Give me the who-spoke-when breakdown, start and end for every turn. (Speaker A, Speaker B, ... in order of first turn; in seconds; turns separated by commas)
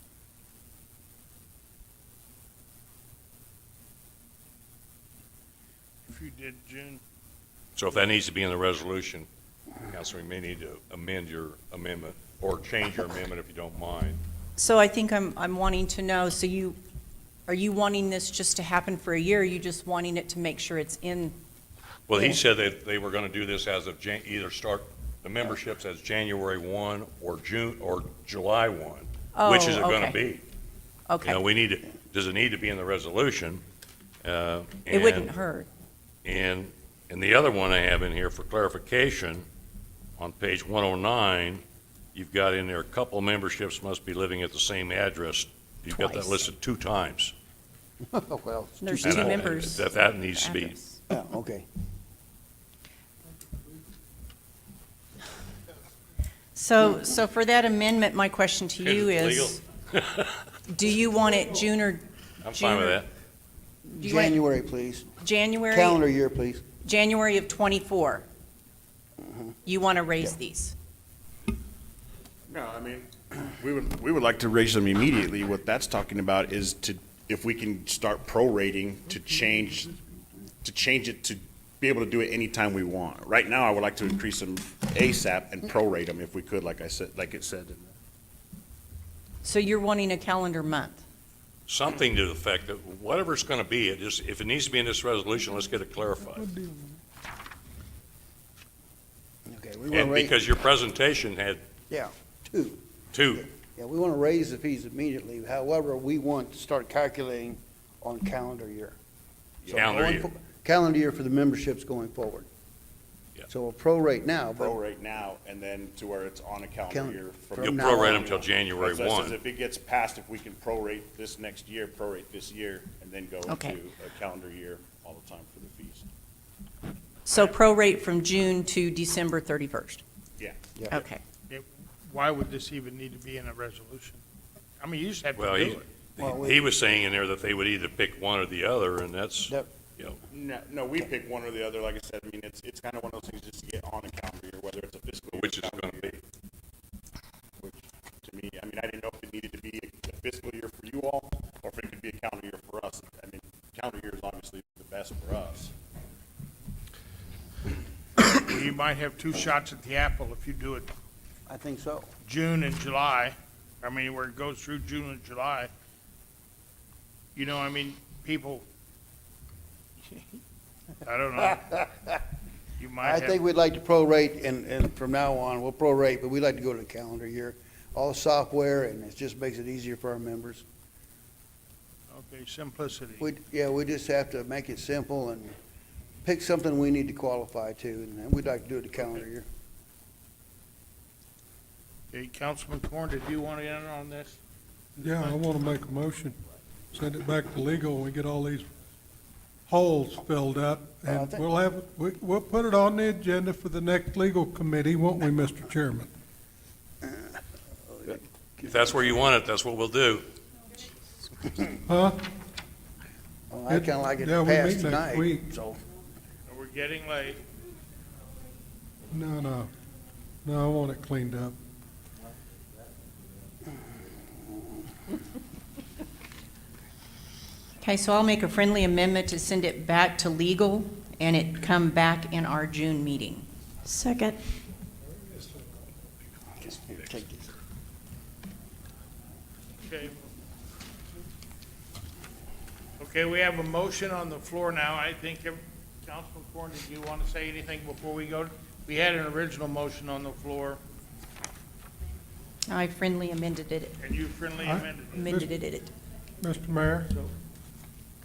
Speaker A: 6.1-7.0, Speaker B: 7.8-9.3, Speaker B: 9.8-14.2, Speaker C: 14.6-16.8, Speaker C: 17.5-21.4, Speaker B: 22.1-30.4, Speaker C: 29.3-30.2, Speaker C: 31.1-31.4, Speaker B: 31.2-33.6, Speaker B: 34.2-35.3, Speaker C: 34.9-35.7, Speaker B: 36.2-39.5, Speaker B: 40.2-41.6, Speaker B: 42.1-47.3, Speaker C: 45.9-46.4, Speaker D: 48.1-49.5, Speaker C: 48.8-51.0, Speaker B: 49.0-50.8, Speaker D: 51.1-51.7, Speaker C: 56.5-59.6, Speaker B: 58.8-60.4, Speaker C: 60.7-63.0, Speaker B: 62.4-63.1, Speaker C: 63.9-64.4, Speaker D: 63.9-65.1, Speaker C: 65.2-66.0, Speaker D: 65.7-66.6, Speaker C: 66.8-68.2, Speaker C: 69.6-70.8, Speaker E: 72.5-80.0, Speaker E: 80.6-87.9, Speaker C: 89.4-91.0, Speaker B: 91.7-96.5, Speaker F: 96.3-97.0, Speaker D: 99.5-100.3, Speaker B: 99.9-101.6, Speaker D: 101.9-102.8, Speaker B: 103.1-103.4, Speaker D: 103.3-109.0, Speaker E: 109.6-109.9, Speaker D: 109.7-112.5, Speaker B: 109.7-110.3, Speaker D: 113.5-114.8, Speaker E: 114.5-126.0, Speaker D: 116.9-118.3, Speaker B: 117.6-119.4, Speaker C: 123.5-123.8, Speaker C: 127.3-130.0, Speaker E: 130.4-130.7, Speaker D: 130.8-131.0, Speaker C: 130.9-131.2, Speaker A: 131.5-134.2, Speaker A: 134.8-135.9, Speaker B: 135.4-140.2, Speaker D: 136.2-136.6, Speaker E: 140.3-146.2, Speaker B: 145.3-146.2, Speaker E: 147.6-155.7, Speaker A: 158.2-160.9, Speaker D: 161.5-162.1, Speaker A: 162.2-165.7, Speaker A: 167.3-168.7, Speaker A: 171.0-171.9, Speaker A: 172.8-173.4, Speaker D: 173.0-180.7, Speaker A: 182.1-183.2, Speaker D: 183.2-185.5, Speaker D: 186.2-189.5, Speaker A: 192.1-194.4, Speaker F: 195.0-196.4, Speaker F: 196.9-198.7, Speaker F: 199.7-206.1, Speaker D: 201.1-201.5, Speaker D: 207.0-207.4, Speaker D: 207.9-208.2, Speaker B: 208.6-210.3, Speaker F: 211.9-212.2, Speaker D: 213.5-215.8, Speaker F: 213.7-215.5, Speaker A: 216.5-217.4, Speaker F: 219.1-219.7, Speaker F: 220.4-221.5, Speaker C: 227.8-234.4, Speaker D: 236.6-237.6, Speaker A: 239.8-240.2, Speaker A: 243.0-250.8, Speaker C: 252.7-254.0, Speaker A: 254.0-255.3, Speaker F: 254.6-255.4, Speaker C: 255.2-255.9, Speaker F: 256.4-257.1